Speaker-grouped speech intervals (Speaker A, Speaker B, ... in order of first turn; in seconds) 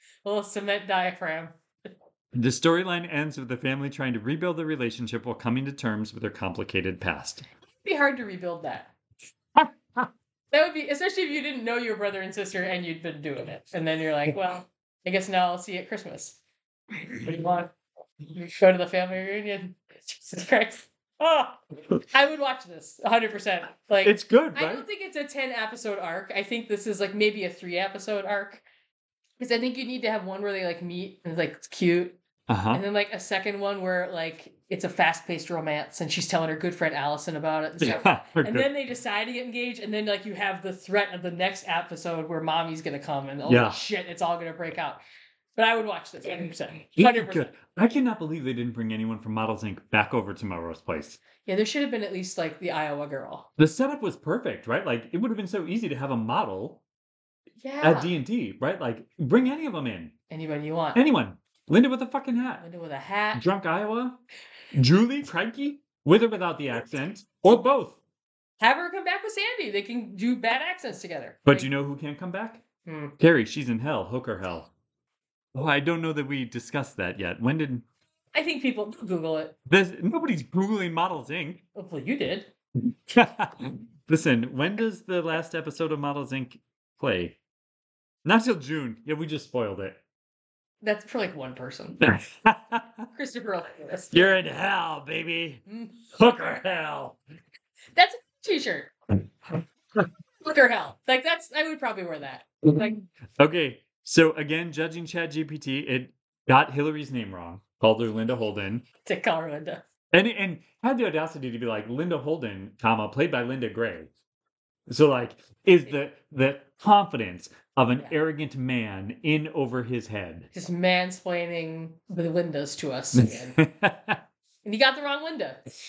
Speaker A: 0.2-1.6, 7.8-8.9, 10.5-16.4, 17.0-17.7, 18.3-28.6, 29.4-32.2, 32.7-45.0, 45.5-47.5, 51.4-53.5, 57.6-58.1, 60.3-61.0, 62.6-63.4, 68.6-71.7, 72.8-73.2, 78.3-79.5, 81.7-82.5, 90.8-92.0, 93.1-94.3, 95.7-96.0, 97.9-98.9, 100.4-103.0, 109.0-109.8, 120.5-123.5, 124.6-125.6
Speaker B: 2.3-7.5, 24.0-24.9, 32.5-32.8, 37.8-38.7, 43.5-43.8, 47.0-51.2, 53.6-56.8, 57.8-60.1, 60.9-62.6, 63.3-64.2, 64.7-68.0, 71.5-72.6, 73.2-74.7, 75.5-77.8, 79.7-81.6, 83.1-87.4, 88.2-90.0, 92.0-93.1, 94.1-95.6, 96.1-97.2, 103.4-108.8, 110.1-114.1, 114.9-120.5, 123.1-124.2